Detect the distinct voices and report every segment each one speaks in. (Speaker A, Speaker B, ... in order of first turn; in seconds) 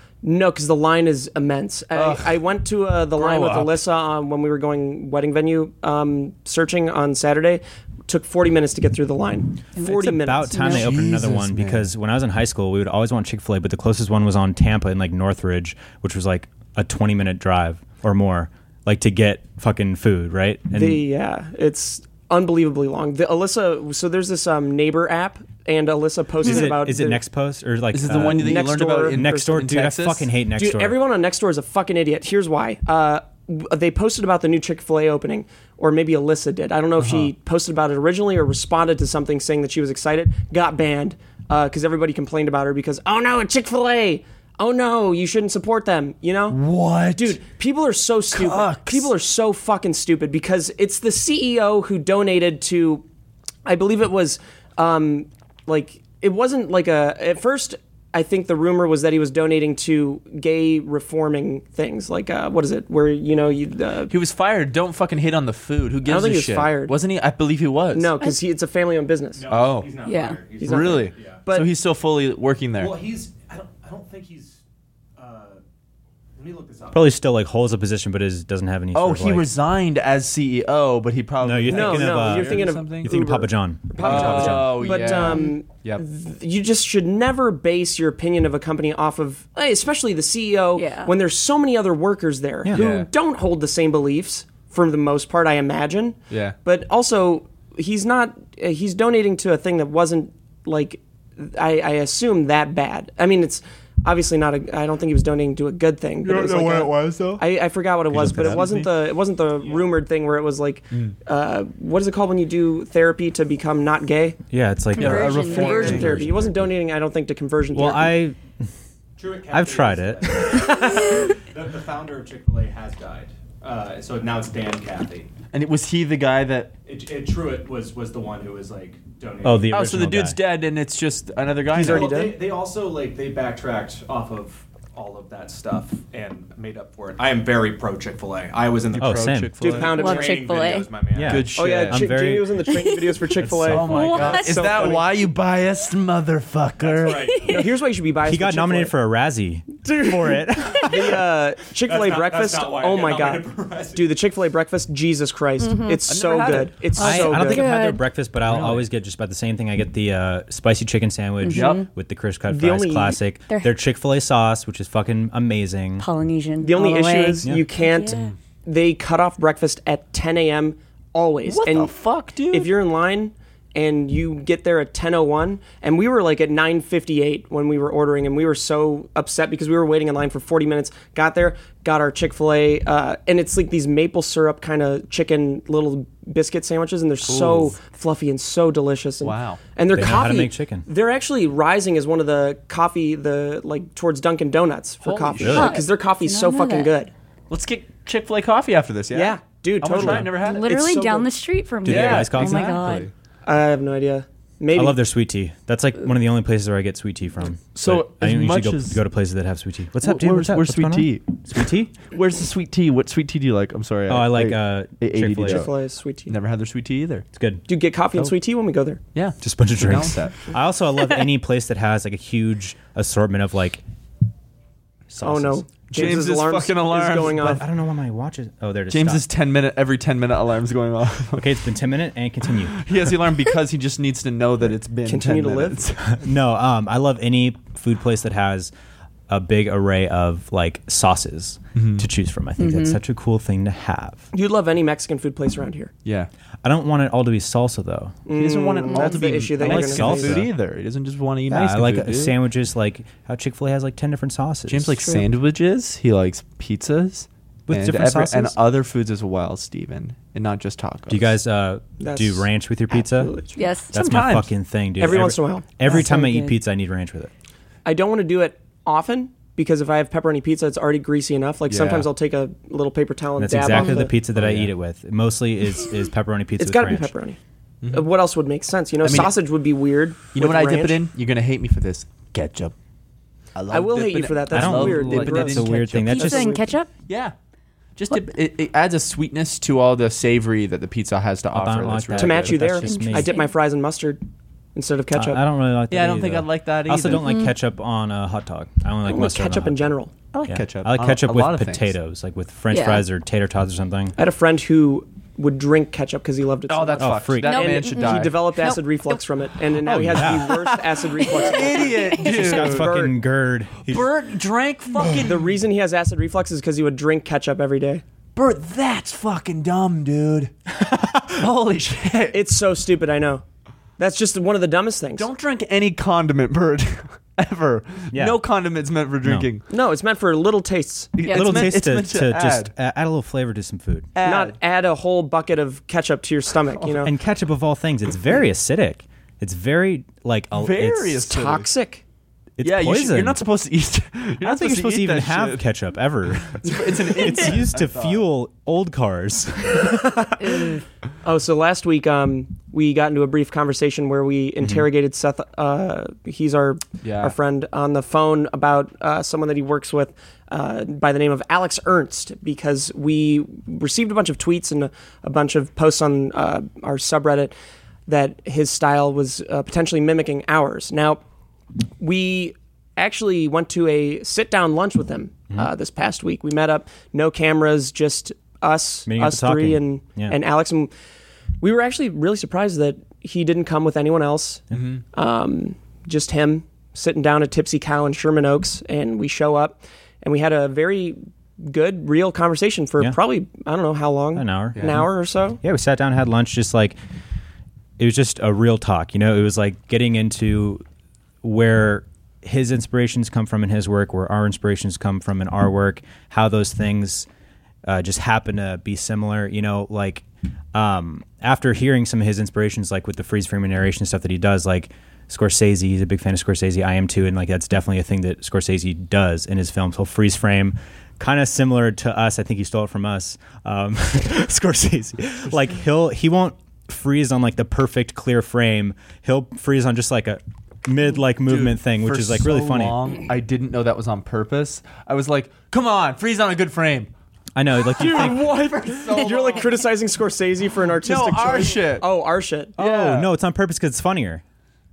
Speaker A: 0.2-10.8, 20.7-27.2, 28.1-29.7, 30.5-46.6, 47.1-53.0, 53.6-64.1, 66.0-66.9, 67.9-69.4, 70.6-71.7, 81.7-114.4, 115.0-118.1, 120.5-121.2, 131.7-132.4, 139.6-140.8, 141.5-145.1, 147.4-148.9, 149.8-157.7, 162.5-163.2, 166.6-171.9, 172.5-197.1, 199.1-201.3, 201.9-202.3, 203.4-205.0, 215.4-216.3, 217.7-219.0, 225.2-227.6, 235.0-235.8, 244.3-245.9, 248.2-250.4, 262.0-263.6, 265.0-265.7, 267.8-274.1, 276.6-277.4, 277.9-281.0, 283.7-286.6, 292.2-294.2, 294.7-295.4, 299.1-300.1, 304.1-313.2, 315.2-318.0, 322.3-323.4, 324.0-325.3, 329.7-331.1, 334.2-337.1, 341.1-342.0, 350.2-350.7, 351.2-367.5, 368.1-371.2, 372.0-380.9, 381.6-395.6, 437.9-442.8
Speaker B: 1.9-2.4, 3.1-3.8, 10.6-11.9, 27.9-30.3, 37.0-37.3, 46.5-47.4, 48.3-49.1, 64.1-68.1, 69.5-69.9, 70.6-73.0, 78.9-83.1, 84.0-86.0, 92.7-93.1, 96.3-96.5, 106.2-107.4, 108.1-108.9, 115.0-116.6, 125.5-126.7, 129.7-132.1, 138.9-140.0, 141.2-142.0, 143.6-147.3, 156.1-156.7, 158.4-158.8, 161.5-161.8, 171.5-172.7, 187.2-187.7, 189.2-189.6, 195.0-195.8, 197.5-200.7, 201.8-203.1, 207.7-209.0, 210.0-211.4, 212.0-215.7, 216.3-217.2, 219.1-220.4, 225.9-227.6, 228.9-231.6, 232.7-236.2, 241.8-242.1, 246.0-246.3, 248.3-252.3, 254.7-261.3, 263.9-264.5, 271.7-272.1, 274.4-274.7, 277.8-278.1, 279.0-279.3, 280.3-282.7, 283.5-286.4, 287.1-287.3, 287.9-292.7, 295.9-297.3, 300.3-301.9, 306.7-308.4, 310.1-312.9, 313.9-315.5, 318.3-322.4, 325.1-329.6, 331.1-332.7, 334.1-334.5, 340.5-341.7, 342.6-345.6, 346.5-348.2, 357.0-357.3, 384.7-385.0, 394.8-395.0, 431.4-437.1, 438.0-439.7, 441.0-442.1, 442.8-443.3
Speaker C: 9.8-21.0, 26.4-31.0, 76.9-79.5, 81.4-84.8, 108.1-108.7, 114.5-116.2, 117.7-118.4, 119.5-120.6, 129.4-130.4, 138.9-139.5, 141.1-142.6, 143.4-144.1, 148.2-151.2, 157.0-166.1, 189.9-190.9, 195.4-195.8, 199.9-200.3, 201.8-202.8, 204.7-211.9, 214.1-215.7, 217.3-217.6, 219.4-223.8, 225.1-225.6, 227.2-229.2, 231.3-233.2, 236.1-238.7, 239.3-244.3, 246.6-248.2, 249.6-250.5, 251.5-255.0, 257.7-258.5, 261.1-263.3, 263.9-267.3, 273.4-277.1, 284.5-286.6, 291.5-293.3, 295.1-299.9, 300.5-304.1, 307.0-307.8, 309.8-310.6, 312.1-314.1, 320.9-321.2, 328.1-328.4, 329.2-329.5, 331.3-334.1, 337.0-341.3, 342.6-343.4, 344.4-350.3, 354.6-354.9, 379.1-380.4, 394.3-395.0, 395.6-396.9, 398.0-400.8, 401.4-407.3, 407.8-433.0, 437.5-438.5, 442.8-444.4
Speaker D: 10.5-10.9, 70.0-70.4, 84.8-85.5, 90.8-91.1, 114.9-116.2, 139.9-140.9, 142.7-143.2, 143.8-145.0, 147.1-147.7, 155.6-156.0, 156.9-158.0, 161.4-161.8, 163.5-163.7, 166.0-168.3, 195.4-196.9, 200.4-203.1, 242.6-243.0, 255.0-255.2, 263.6-263.9, 265.8-266.6, 273.7-274.0, 286.0-286.9, 292.8-293.5, 297.1-297.5, 302.7-303.0, 307.4-309.2, 311.3-312.3, 331.2-331.6, 350.4-350.8
Speaker E: 69.3-71.4, 72.8-74.6, 75.2-75.6, 76.4-77.1, 119.2-125.3, 126.8-129.8, 131.8-141.5, 146.8-147.7, 151.8-154.1